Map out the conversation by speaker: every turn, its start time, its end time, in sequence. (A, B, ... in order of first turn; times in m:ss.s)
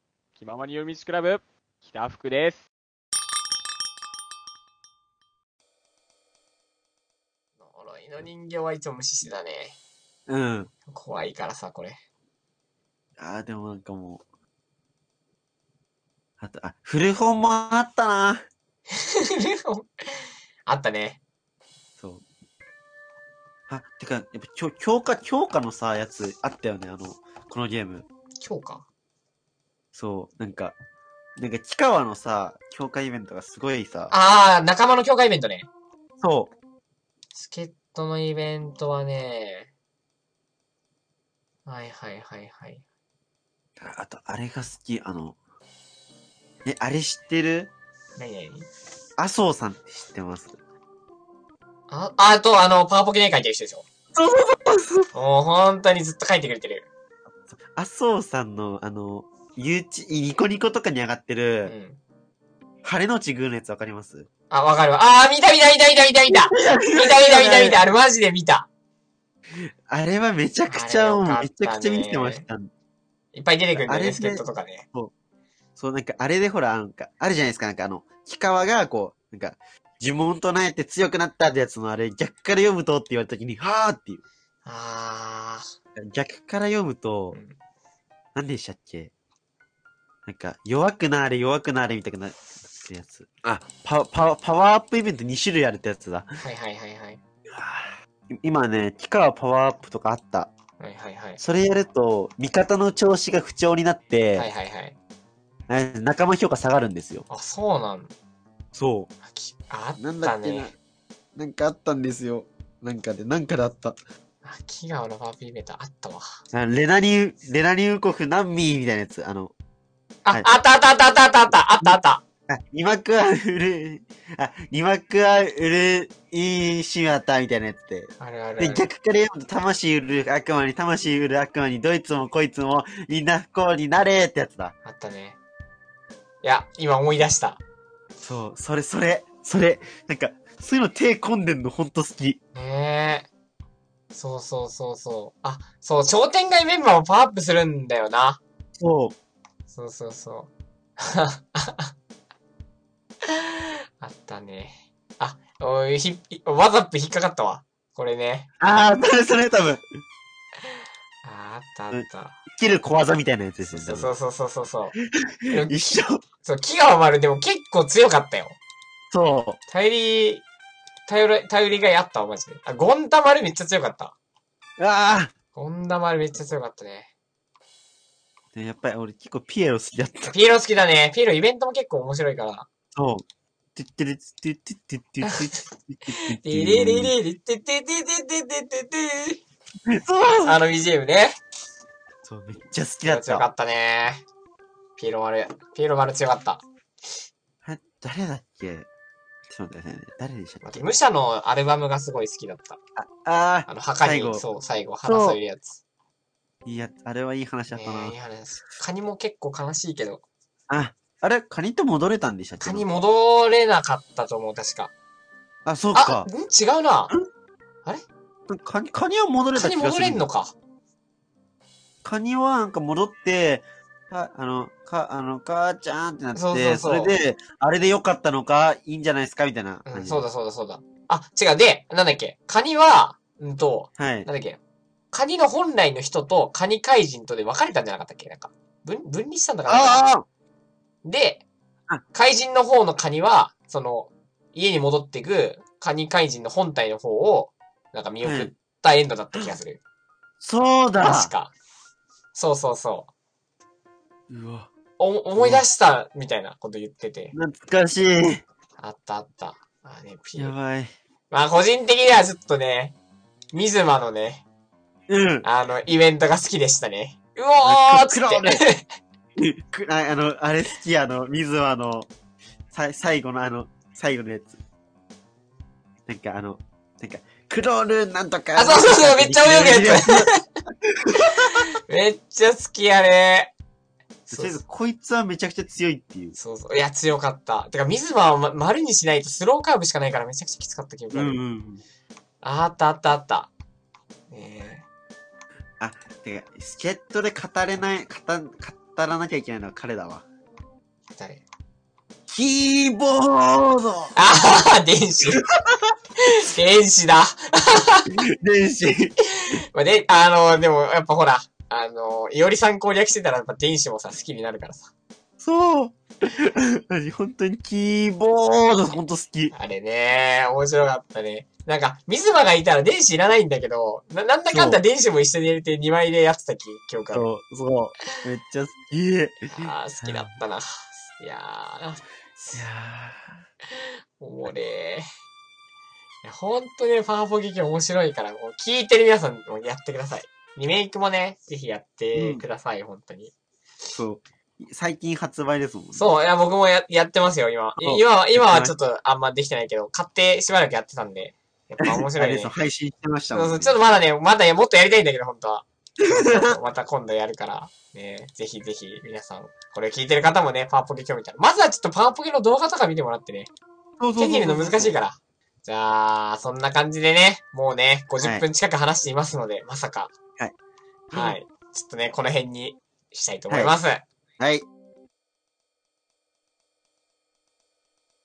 0:00.4-0:02.6 A
0:07.6-0:09.8 B
0:10.3-0:10.7 C
0:10.9-0:12.0 B
0:13.2-0:14.2 C
0:16.4-0:18.4 C
0:19.0-0:21.2 B
0:22.0-0:22.2 C
0:23.7-0:28.0 C
0:28.4-0:28.8 B
0:29.9-0:30.8 C
0:31.4-0:34.1 C
0:34.1-0:35.7 B
0:36.2-0:36.5 C
0:37.3-0:39.7 B
0:41.6-0:42.8 B
0:43.8-0:45.4 C
0:46.6-0:47.7 C
0:48.2-0:48.7 B
0:49.2-0:50.6 C
0:51.9-0:53.8 B
0:54.1-0:55.1 C
0:55.1-0:56.9 B
0:57.7-1:01.7 C
1:01.6-1:02.0 B
1:02.8-1:04.3 C
1:04.5-1:08.7 B
1:06.3-1:07.8 C
1:09.6-1:12.7 C
1:10.7-1:12.4 B
1:13.3-1:14.8 B
1:13.7-1:15.1 C
1:15.8-1:24.2 C
1:24.6-1:25.6 B
1:26.0-1:27.4 C
1:27.3-1:27.6 B
1:28.3-1:29.1 C
1:30.2-1:36.4 C
1:36.4-1:37.2 B
1:37.5-1:40.5 C
1:40.8-1:41.4 B
1:41.4-1:44.5 C
1:44.3-1:45.0 B
1:45.7-1:47.2 C
1:47.3-1:48.1 B
1:48.7-1:49.1 C
1:49.2-1:50.7 B
1:50.0-1:50.7 C
1:51.3-1:54.0 C
1:54.4-1:56.3 B
1:56.5-1:59.5 C
2:00.2-2:02.2 B
2:00.3-2:00.6 C
2:02.5-2:14.7 C
2:08.2-2:08.9 B
2:14.8-2:15.4 B
2:16.4-2:17.6 B
2:18.2-2:22.4 C
2:22.5-2:23.3 B
2:24.1-2:28.4 B
2:28.8-2:29.1 C
2:29.7-2:31.9 B
2:33.2-2:38.5 B
2:38.6-2:39.8 C
2:41.2-2:42.4 B
2:41.9-2:44.1 C
2:43.6-2:44.9 B
2:45.5-2:48.6 B
2:45.5-2:46.2 C
2:49.1-2:49.6 C
2:49.7-2:50.4 B
2:51.0-2:54.1 B
2:54.8-2:55.3 C
2:55.5-2:57.1 B
2:58.5-3:00.4 C
3:00.3-3:02.7 B
3:02.9-3:03.2 C
3:03.7-3:07.1 C
3:05.2-3:05.6 B
3:06.4-3:09.4 B
3:09.9-3:10.6 C
3:10.4-3:11.4 B
3:12.2-3:13.5 C
3:13.0-3:14.2 B
3:15.0-3:16.6 B
3:17.6-3:18.9 C
3:19.5-3:20.8 C
3:20.6-3:22.8 B
3:23.0-3:24.5 C
3:23.7-3:25.8 B
3:25.0-3:25.4 C
3:26.6-3:28.2 C
3:27.7-3:30.2 B
3:30.7-3:32.9 C
3:32.6-3:34.9 B
3:35.6-3:36.3 C
3:35.9-3:37.1 B
3:38.5-3:40.3 C
3:39.5-3:40.5 B
3:42.0-3:50.2 C
3:46.3-3:47.2 B
3:49.8-3:54.6 B
3:54.0-3:54.3 C
3:55.1-4:00.1 B
3:59.7-4:00.2 C
4:01.0-4:01.4 B
4:02.1-4:09.8 B
4:08.2-4:08.5 C
4:10.4-4:11.3 C
4:11.0-4:11.5 B
4:12.3-4:13.1 B
4:14.3-4:14.7 C
4:15.0-4:17.3 B
4:15.4-4:15.6 C
4:17.3-4:18.4 C
4:18.8-4:20.6 B
4:20.4-4:20.9 C
4:21.3-4:22.9 B
4:23.5-4:24.4 B
4:25.1-4:25.5 C
4:25.4-4:28.8 B
4:27.6-4:28.6 C
4:29.4-4:32.1 C
4:32.7-4:34.6 C
4:36.1-4:40.3 C
4:38.5-4:40.4 B
4:40.9-4:41.5 C
4:41.9-4:43.5 B
4:44.3-4:44.6 B
4:44.3-4:46.4 C
4:46.3-4:51.4 B
4:51.1-4:51.8 C
4:52.4-4:53.5 B
4:54.3-4:54.8 B
4:55.8-5:00.2 C
5:01.1-5:01.4 B
5:02.3-5:04.2 C
5:04.1-5:05.5 B
5:06.3-5:08.1 B
5:08.1-5:09.2 C
5:09.7-5:14.9 B
5:15.4-5:19.5 C
5:19.5-5:27.3 B
5:24.5-5:24.8 C
5:27.1-5:30.3 C
5:29.5-5:32.7 B
5:32.5-5:33.4 C
5:33.7-5:35.0 B
5:36.2-5:43.3 B
5:42.1-5:42.4 C
5:43.9-5:46.2 C
5:45.9-5:52.5 B
5:47.8-5:48.7 C
5:51.8-5:53.8 C
5:53.3-6:03.5 B
5:56.1-5:56.6 C
6:04.0-6:05.0 C
6:04.2-6:10.1 B
6:08.2-6:08.4 C
6:11.1-6:11.4 C
6:11.1-6:14.0 B
6:13.5-6:13.8 C
6:14.4-6:14.6 C